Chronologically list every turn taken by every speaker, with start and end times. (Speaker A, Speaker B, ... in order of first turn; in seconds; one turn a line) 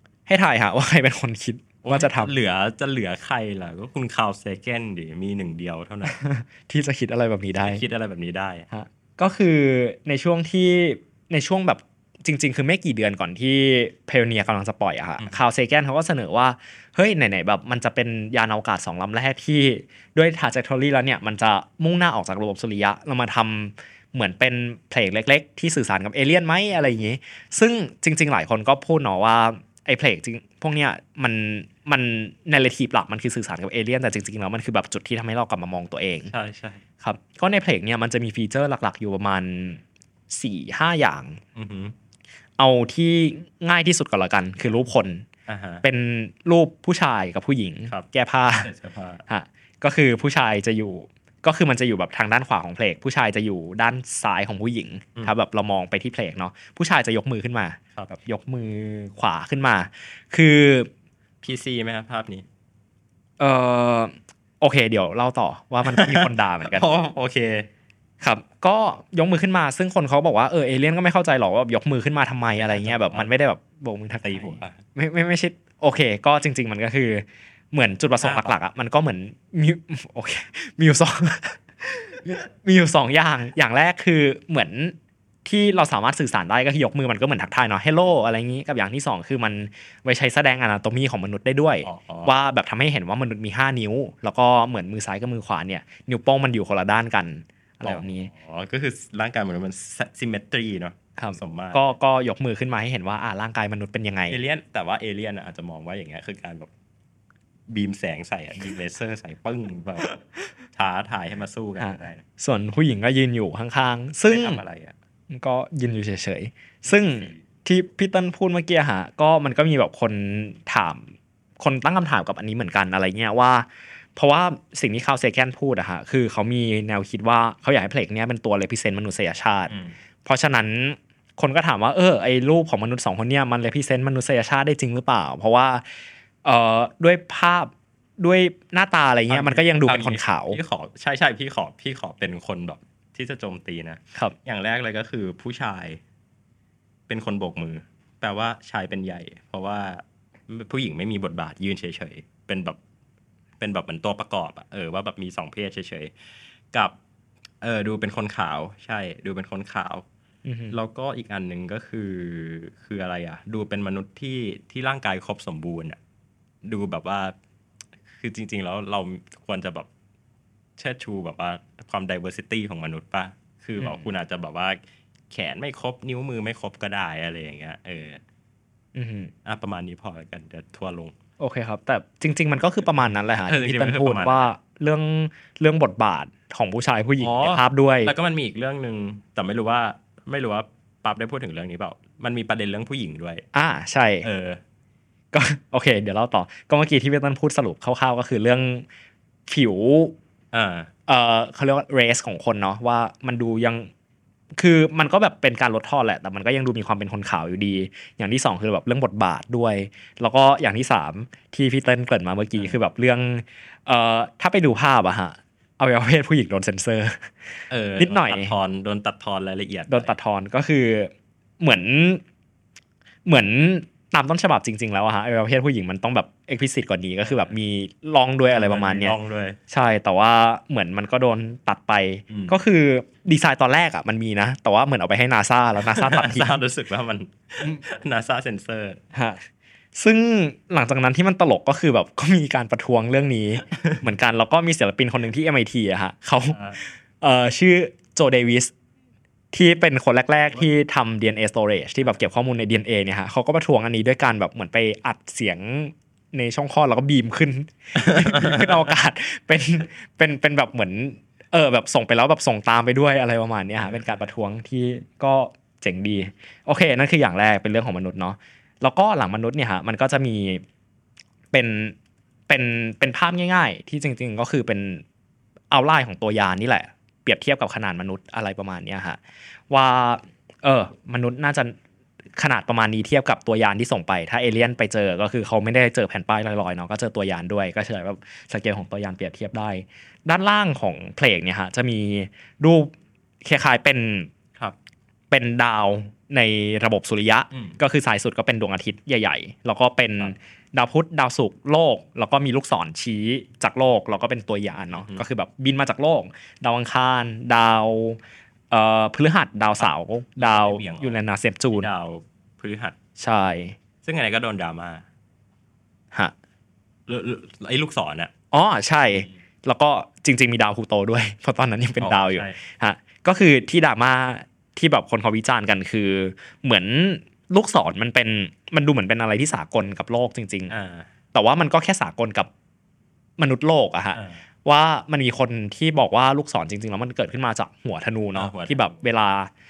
Speaker A: 0.3-2.3
Speaker B: 1.8-6.2
Speaker A: 6.0-7.8
Speaker B: 7.6-8.7
Speaker A: 8.7-36.3
Speaker B: 36.3-36.8
Speaker A: 37.0-41.4
Speaker B: 41.5-42.0
Speaker A: 42.6-45.2
Speaker B: 45.5-45.8
Speaker A: 45.8-48.7
Speaker B: 47.9-49.2
Speaker A: 49.3-60.9
Speaker B: 61.4-62.5
Speaker A: 63.4-66.9
Speaker B: 65.8-67.7
Speaker A: 68.2-98.3
Speaker B: 72.6-73.3
Speaker B: 74.2-74.8
Speaker B: 78.2-78.5
Speaker B: 91.8-92.3
Speaker B: 97.8-101.9
Speaker A: 101.2-104.4
Speaker B: 104.3-106.7
Speaker B: 107.7-110.2
Speaker B: 110.7-112.2
Speaker A: 111.8-114.6
Speaker B: 114.3-115.0
Speaker A: 115.3-129.7
Speaker B: 116.9-117.4
Speaker B: 129.7-129.9
Speaker A: 130.2-135.9
Speaker A: 136.4-140.6
Speaker B: 139.3-146.0
Speaker B: 147.1-152.8
Speaker B: 153.6-156.1
Speaker B: 157.6-160.1
Speaker A: 160.4-160.8
Speaker B: 160.7-166.0
Speaker B: 166.6-167.3
Speaker B: 168.2-169.9
Speaker B: 170.8-178.2
Speaker A: 173.8-174.1
Speaker A: 178.9-179.3
Speaker B: 179.4-181.2
Speaker A: 181.4-188.1
Speaker B: 183.5-184.5
Speaker B: 187.2-193.4
Speaker A: 193.5-194.3
Speaker B: 194.2-194.6
Speaker A: 195.3-198.9
Speaker A: 199.5-200.2
Speaker B: 200.5-200.9
Speaker A: 201.1-203.9
Speaker A: 204.6-218.5
Speaker B: 217.7-220.1
Speaker A: 219.9-222.2
Speaker A: 223.2-229.2
Speaker B: 227.2-227.5
Speaker B: 228.5-229.6
Speaker A: 229.7-236.6
Speaker B: 232.3-232.6
Speaker B: 235.8-239.0
Speaker A: 239.1-239.4
Speaker A: 239.9-248.7
Speaker B: 243.7-244.0
Speaker B: 246.5-246.8
Speaker A: 249.5-270.6
Speaker B: 258.1-258.8
Speaker A: 271.5-271.9
Speaker A: 272.5-275.0
Speaker A: 275.7-281.8
Speaker A: 282.4-292.9
Speaker A: 293.4-294.3
Speaker A: 295.3-308.2
Speaker B: 297.5-297.8
Speaker B: 304.9-305.2
Speaker A: 308.7-311.9
Speaker B: 309.8-311.2
Speaker B: 311.7-313.0
Speaker A: 313.2-313.8
Speaker B: 314.0-315.1
Speaker B: 317.1-318.3
Speaker A: 318.5-330.7
Speaker B: 322.0-322.6
Speaker B: 330.7-331.1
Speaker A: 331.3-332.5
Speaker A: 333.4-339.5
Speaker B: 334.1-334.4
Speaker B: 338.4-338.9